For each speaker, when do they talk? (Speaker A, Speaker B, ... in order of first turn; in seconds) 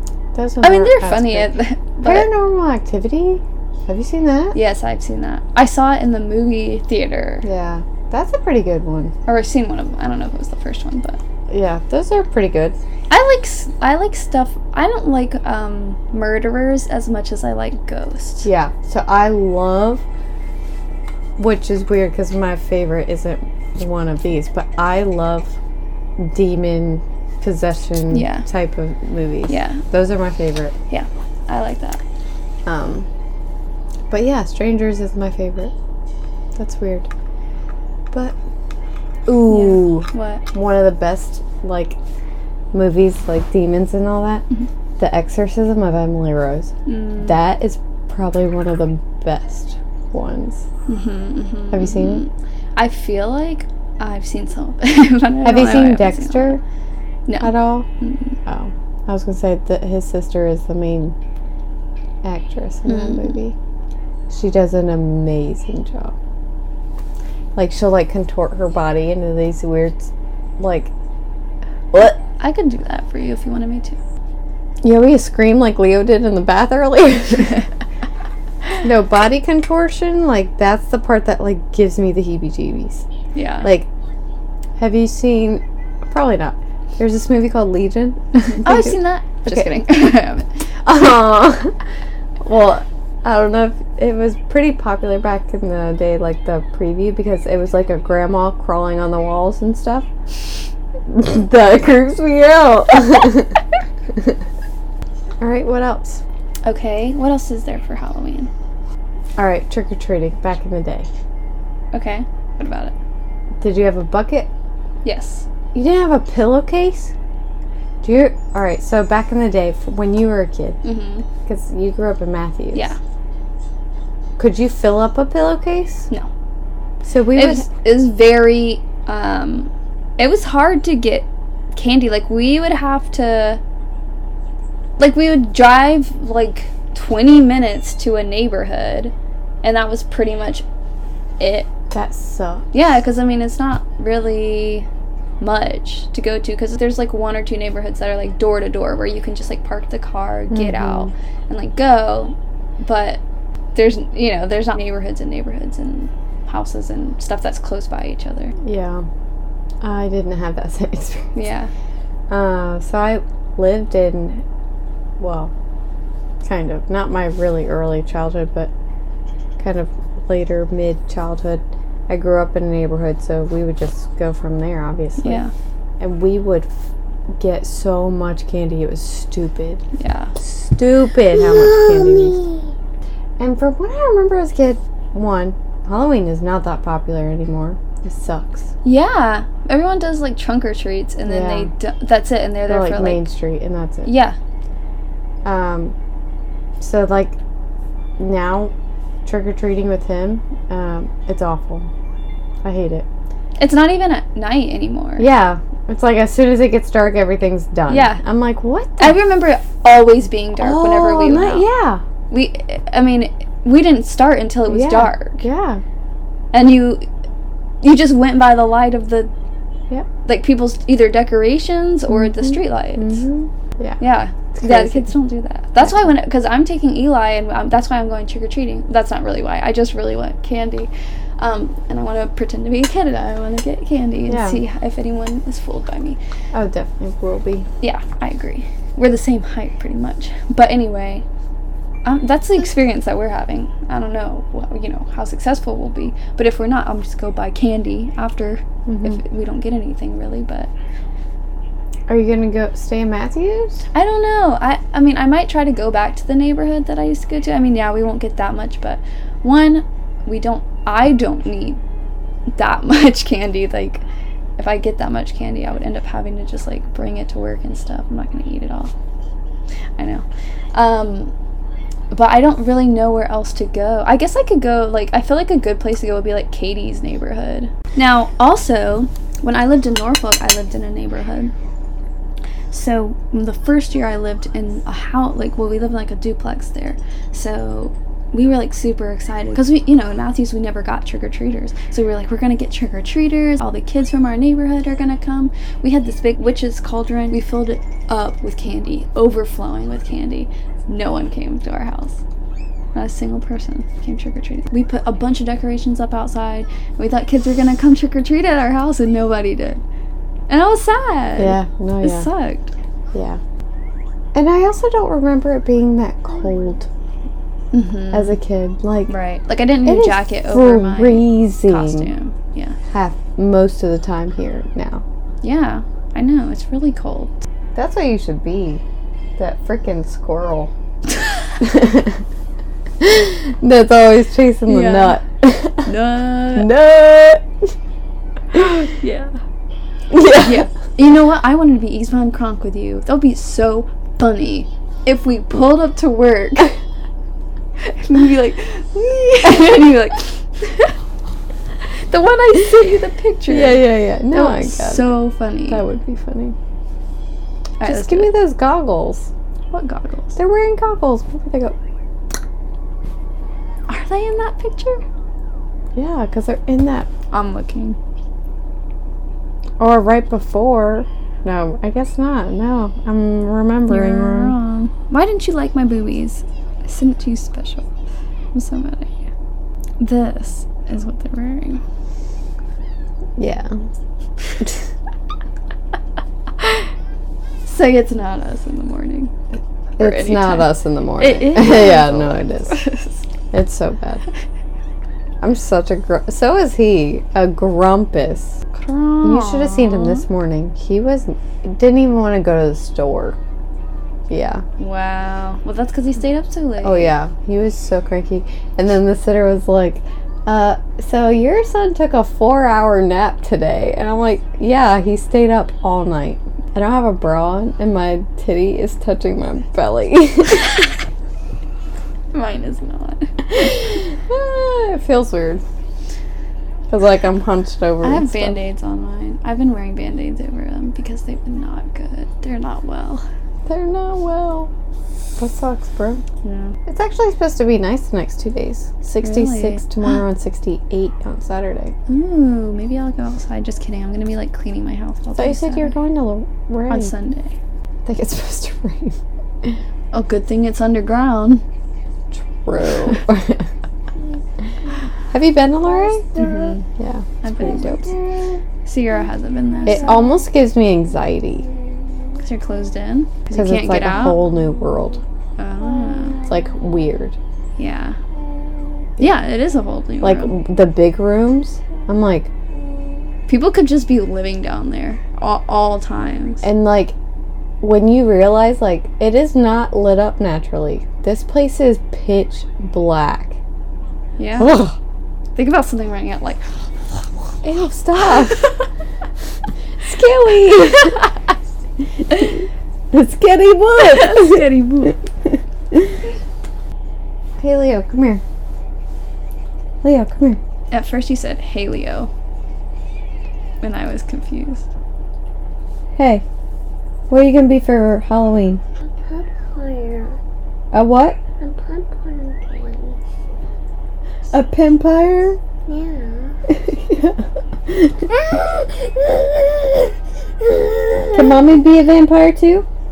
Speaker A: 0.3-4.6, 7.4-9.1, 11.5-12.8, 18.4-20.1, 21.4-25.6, 26.2-30.8, 32.7-33.1, 34.1-35.7, 36.6-37.1, 38.1-38.4, 39.3-42.0, 42.7-44.5, 45.0-50.7, 51.7-52.2, 55.4-56.6, 57.4-57.9, 58.5-61.2, 62.2-63.6, 64.3-66.2, 67.5-70.9, 71.9-72.2, 74.8-77.6, 78.8-83.1, 83.6-83.9, 84.8-89.7, 90.8-91.8, 92.4-100.1, 101.1-103.6, 105.4-106.2, 109.4-111.1, 113.6-114.5, 115.7-117.1, 118.0-120.8, 121.5-122.9, 124.4-126.1, 127.0-127.7, 141.9-142.7, 150.5-151.1, 158.6-159.1, 159.8-161.3, 162.3-164.4, 165.2-165.5, 166.4-168.7, 169.6-175.4, 176.0-176.8, 177.4-179.8, 180.4-182.4, 183.4-188.7, 191.2-191.7, 192.6-194.1, 195.4-195.9, 196.8-197.4, 198.2-198.7, 199.2-201.9, 202.6-203.1, 205.2-209.2, 210.6-212.0, 214.7-215.8, 222.1-224.0, 224.5-225.1, 225.8-226.1, 234.3-234.6, 236.5-237.7, 248.9-249.2, 252.1-253.8, 311.4-312.3, 313.1-313.4, 314.3-316.9, 318.1-319.1, 319.9-322.1, 322.9-325.0, 327.8-328.8, 329.4-330.7, 331.6-332.2, 333.0-335.9, 336.5-337.5, 340.1-340.7, 353.5-356.6, 357.8-359.3, 360.4-361.8, 365.9-367.1, 369.8-374.6, 383.4-383.8, 390.0-392.8, 393.5-394.2, 395.4-398.6, 399.2-403.4, 404.3-404.6, 406.8-420.8, 423.5-425.6, 426.9-428.6, 433.7-434.7, 435.4-436.2, 436.9-441.9, 445.4-447.1, 448.1-449.8, 452.3-453.7, 455.3-456.2, 457.0-458.4, 459.9-461.7, 463.5-465.2, 466.5-467.4, 470.2-472.5, 476.6-477.2, 477.8-483.6, 484.6-485.0, 487.6-488.6, 490.0-491.2, 492.3-496.2, 497.6-498.4, 500.0-500.6, 506.2-506.4, 507.3-508.8, 510.9-511.4, 514.5-515.6, 516.7-518.3, 521.3-522.9
Speaker B: 0.6-2.3, 4.5-7.5, 9.3-11.2, 13.1-18.5, 28.1-28.5, 29.5-29.8, 30.9-32.0, 39.5-40.4, 46.9-47.4, 50.9-56.6, 57.3-58.4, 62.9-63.4, 72.2-74.0, 83.3-83.7, 88.6-90.5, 106.6-108.5, 111.9-113.0, 115.0-115.5, 120.8-121.2, 122.7-123.0, 127.3-133.6, 135.0-140.7, 141.4-141.7, 142.7-144.9, 145.4-153.2, 153.8-158.5, 161.3-161.7, 175.2-175.5, 180.0-180.3, 188.8-193.3, 194.1-194.4, 203.6-205.3, 207.9-208.2, 209.0-211.7, 212.3-215.4, 216.5-217.1, 217.8-219.3, 220.2-223.2, 224.0-236.2, 237.8-241.2, 242.1-250.7, 253.9-261.8, 262.6-264.0, 264.6-268.9, 270.0-271.3, 272.1-281.5, 282.7-302.2, 302.9-309.8, 310.5-312.7, 317.7-318.4, 319.1-322.8, 325.4-327.3, 334.7-335.2, 335.9-336.7, 339.0-339.4, 340.4-346.8, 347.8-350.9, 351.9-355.8, 357.8-358.4, 359.7-360.4, 363.9-365.0, 367.3-368.0, 373.9-377.9, 378.5-379.3, 380.0-381.8, 387.6-389.3, 390.0-393.2, 398.7-400.2, 404.8-407.1, 422.3-423.7, 428.0-433.2, 436.4-436.8, 439.2-439.8, 442.1-445.9, 446.9-447.5, 450.1-451.6, 456.4-456.9, 457.4-458.1, 458.9-460.1, 462.4-464.4, 465.6-466.4, 467.8-468.2, 469.2-470.5, 473.5-476.6, 484.4-484.8, 485.6-486.7, 494.0-495.2, 500.9-502.3, 503.8-504.9
Speaker C: 181.5-182.6, 454.2-455.0, 455.8-456.7, 459.8-460.3, 461.6-462.4, 465.8-466.9, 468.3-469.1, 472.7-473.4, 509.0-510.4, 511.6-513.2, 515.9-516.6, 518.3-521.7